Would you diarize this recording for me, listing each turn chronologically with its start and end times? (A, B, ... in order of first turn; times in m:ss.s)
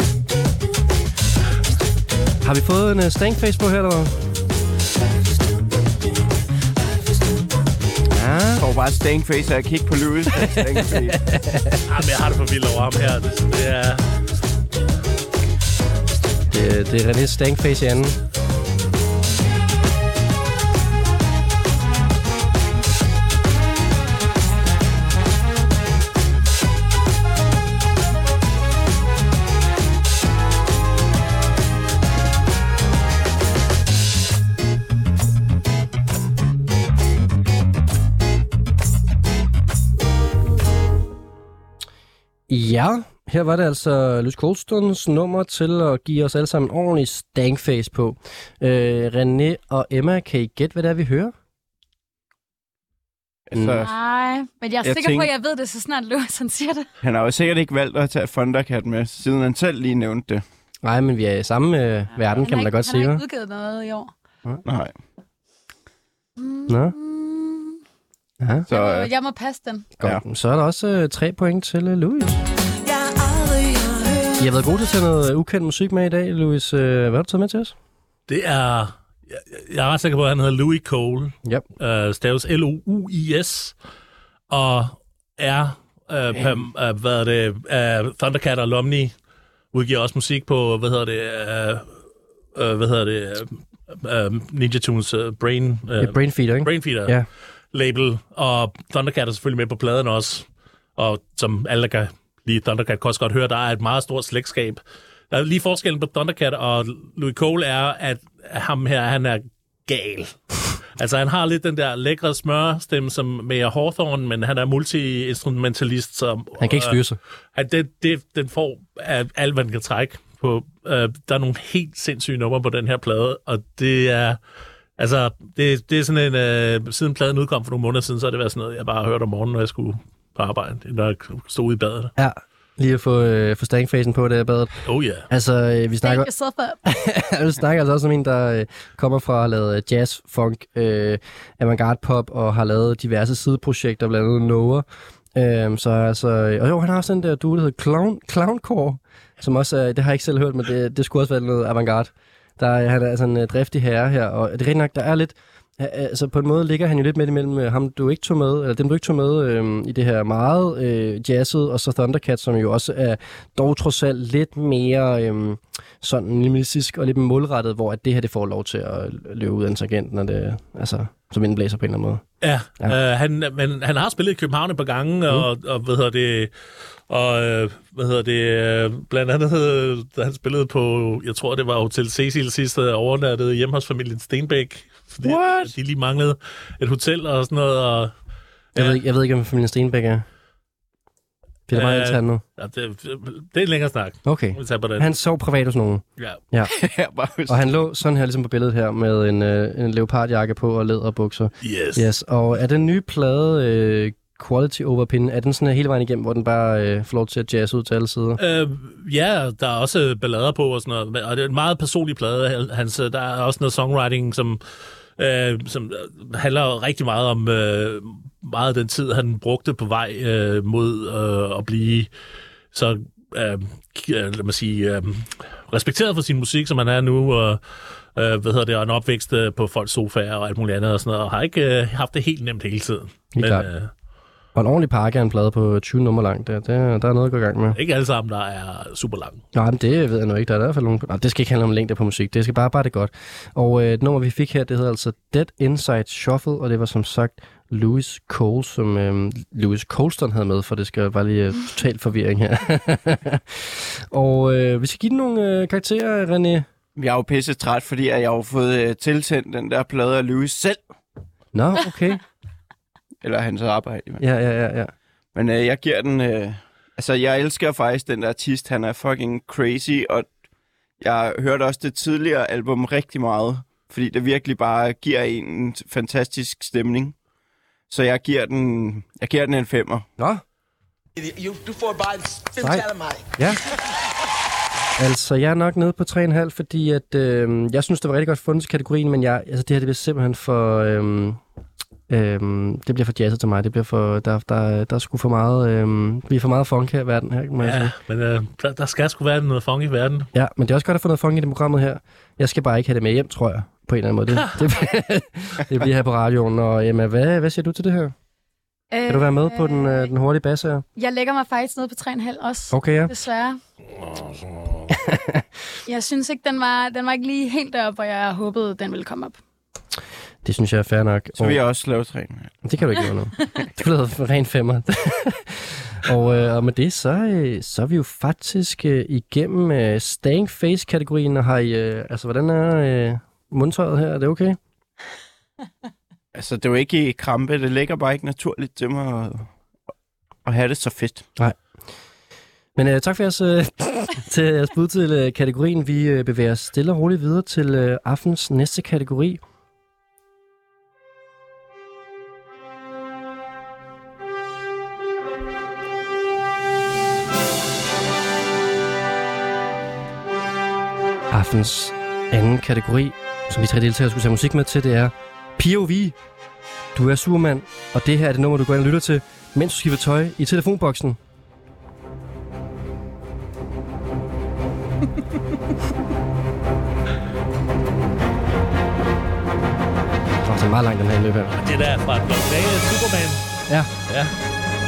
0:02.4-0:04.1 A
0:08.1-0:08.6 A
0:08.6-0:11.2 B
0:10.3-0:11.8 A
0:11.9-0:14.0 C
0:16.5-0:18.2 A
0:42.5-0:51.3 A
0:53.5-0:53.9 B
0:53.5-0:53.8 A
0:53.8-0:56.9 D
0:54.8-0:55.3 B
0:57.0-1:00.4 B
1:00.8-1:03.2 A
1:02.2-1:04.1 D
1:04.6-1:04.9 B
1:06.4-1:07.8 D
1:06.7-1:06.9 A
1:08.4-1:08.6 A
1:08.7-1:09.1 B
1:08.7-1:09.9 D
1:10.0-1:12.4 A
1:14.4-1:17.7 A
1:18.3-1:23.8 C
1:24.5-1:29.1 C
1:29.7-1:32.0 C
1:32.5-1:37.2 C
1:36.0-1:37.2 A
1:37.7-1:57.0 C
1:56.6-1:57.2 A
1:57.5-2:04.4 C
2:05.0-2:12.1 C
2:12.2-2:16.3 A
2:14.8-2:15.3 C
2:16.0-2:16.8 D
2:16.8-2:52.2 A
2:52.4-2:56.5 C
2:57.1-3:08.1 C
3:05.2-3:05.8 A
3:08.7-3:09.0 C
3:08.7-3:10.2 A
3:11.7-3:12.4 A
3:11.7-3:15.1 C
3:14.2-3:16.7 A
3:16.7-3:17.7 B
3:17.5-3:28.4 A
3:21.6-3:22.1 C
3:28.4-3:34.6 C
3:35.2-3:42.1 C
3:42.7-3:47.6 C
3:48.1-3:53.9 C
3:53.4-3:53.7 A
3:54.5-3:57.8 A
3:57.7-3:59.4 C
3:59.5-4:16.7 A
4:17.0-4:20.8 B
4:21.5-4:22.2 A
4:23.2-4:24.2 B
4:24.2-4:24.9 A
4:25.3-4:30.3 B
4:31.0-4:37.2 B
4:37.9-4:40.0 B
4:40.2-4:40.4 A
4:41.2-4:43.6 E
4:42.6-4:43.6 A
4:45.0-4:51.4 A
4:52.1-4:57.9 A
4:57.6-5:00.3 C
5:00.3-5:08.1 A
5:08.9-5:10.1 D
5:09.1-5:10.8 A
5:11.0-5:13.6 D
5:12.7-5:13.1 A
5:14.1-5:14.8 C
5:14.9-5:15.4 A
5:15.8-5:19.4 D
5:20.4-5:21.6 A
5:21.4-5:22.5 B
5:22.6-5:34.6 A
5:36.3-5:39.5 B
5:40.4-5:41.3 B
5:42.7-5:49.4 A
6:01.3-6:06.2 A
6:06.9-6:11.2 A
6:20.4-6:21.6 A
6:21.6-6:23.4 C
6:24.1-6:24.3 C